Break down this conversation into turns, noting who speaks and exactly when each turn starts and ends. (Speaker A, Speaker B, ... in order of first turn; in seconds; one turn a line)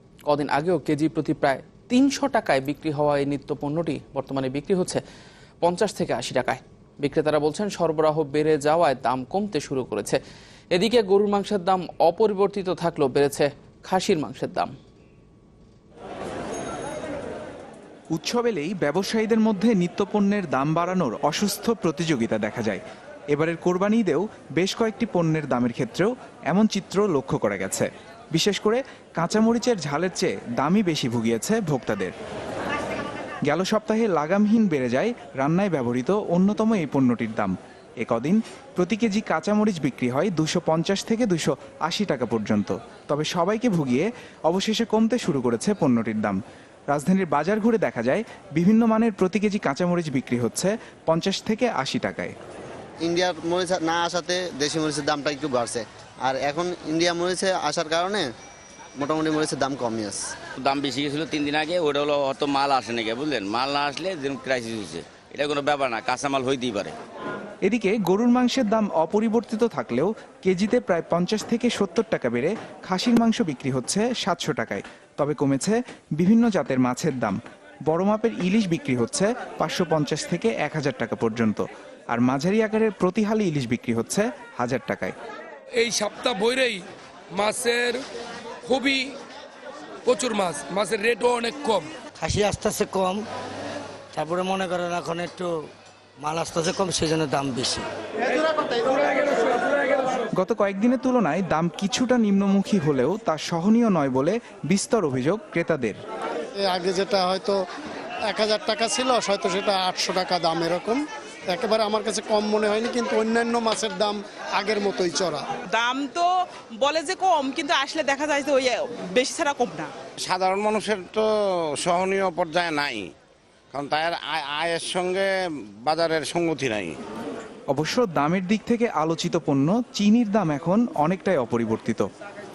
Speaker A: 0.3-5.0
Speaker A: 5.6-10.2
Speaker A: 10.7-14.7
Speaker B: 18.1-22.8
Speaker B: 23.3-32.1
Speaker B: 33.5-46.4
Speaker B: 46.9-52.3
Speaker C: 53.0-58.3
Speaker C: 59.0-60.2
Speaker D: 60.6-66.9
Speaker B: 67.7-85.1
Speaker E: 85.8-86.8
Speaker E: 87.3-88.0
Speaker E: 88.7-89.2
Speaker E: 90.1-91.9
Speaker F: 92.2-93.2
Speaker F: 94.1-97.9
Speaker B: 100.4-106.0
Speaker G: 106.6-107.6
Speaker G: 108.3-115.4
Speaker H: 115.7-119.9
Speaker I: 120.3-121.3
Speaker I: 121.8-123.1
Speaker I: 123.7-125.3
Speaker I: 125.8-126.9
Speaker B: 127.7-132.1